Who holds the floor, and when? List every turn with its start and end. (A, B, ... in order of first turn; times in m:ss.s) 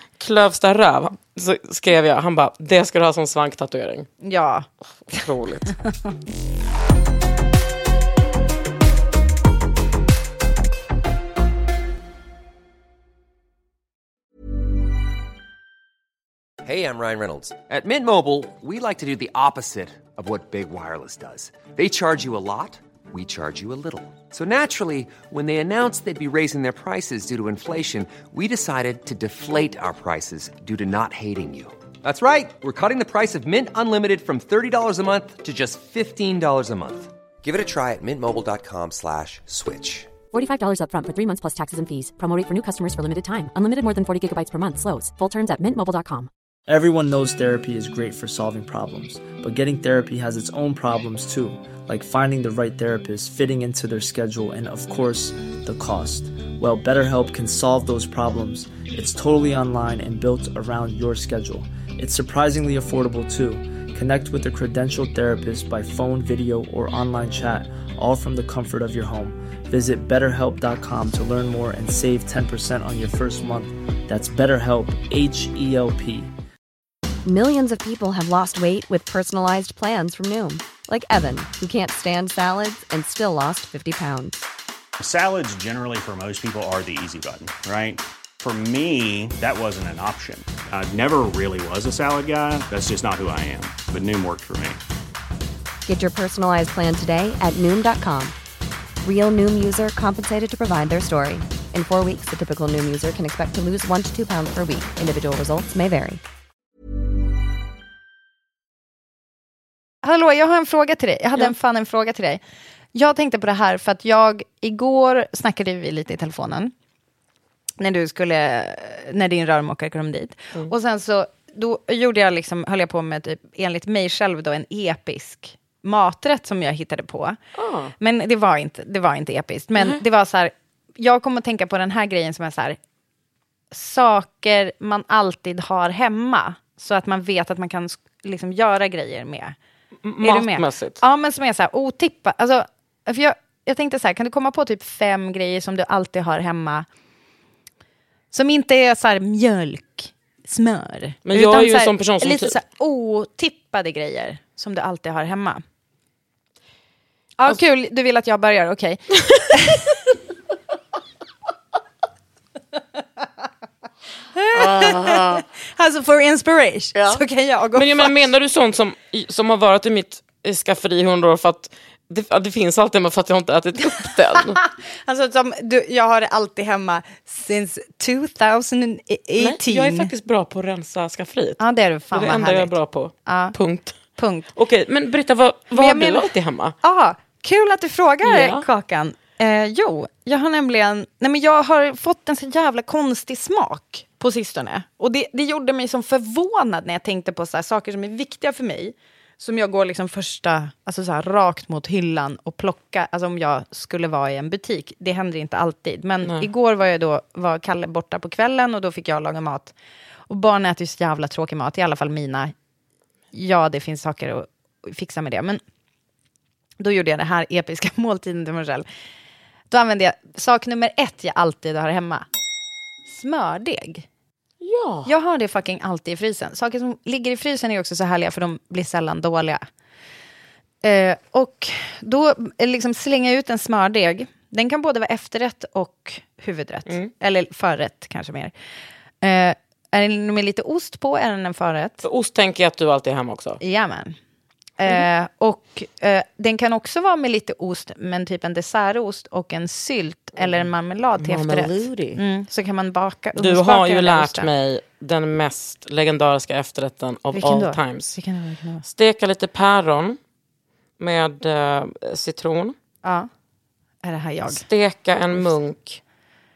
0:00.2-0:04.1 A
0:04.2-0:05.2 B
0:05.0-0:05.7 A
0:16.6-0:40.1 C
0:40.3-0:46.3 D
0:46.7-1:16.3 E
1:17.2-1:24.4 F
1:25.0-1:34.8 G
1:35.8-1:38.3 F
1:39.0-1:46.2 F
1:50.0-1:52.4 B
1:52.9-1:56.7 B
1:57.8-2:07.4 B
2:07.6-2:07.9 A
2:08.0-2:12.8 B
2:09.8-2:10.0 A
2:13.7-2:19.5 B
2:20.0-2:21.0 A
2:20.2-2:26.8 B
2:28.3-2:35.6 B
2:31.2-2:32.5 A
2:37.4-2:39.8 B
2:44.3-2:48.1 B
2:44.5-2:45.4 A
2:47.7-2:54.6 A
2:54.6-3:00.1 B
2:59.4-3:01.6 A
3:01.6-3:02.7 B
3:02.1-3:04.0 A
3:03.2-3:03.5 B
3:04.2-3:04.5 B
3:04.5-3:06.7 A
3:05.7-3:06.3 B
3:06.8-3:29.7 B
3:08.2-3:08.6 A
3:30.3-3:32.5 B
3:33.3-3:35.6 B
3:36.8-3:38.8 B
3:39.7-3:42.2 B
3:43.1-3:44.0 B
3:44.6-3:45.1 A
3:45.0-3:49.6 B
3:50.8-3:58.5 B
3:59.2-4:02.0 B
4:02.0-4:03.6 A
4:03.6-4:04.2 B
4:04.8-4:14.5 B
4:10.4-4:10.7 A
4:11.2-4:12.2 A
4:13.4-4:18.2 A
4:17.3-4:18.8 B
4:18.8-4:20.2 A
4:21.0-4:22.7 A
4:23.0-4:23.3 B
4:24.0-4:24.6 B
4:24.5-4:26.0 A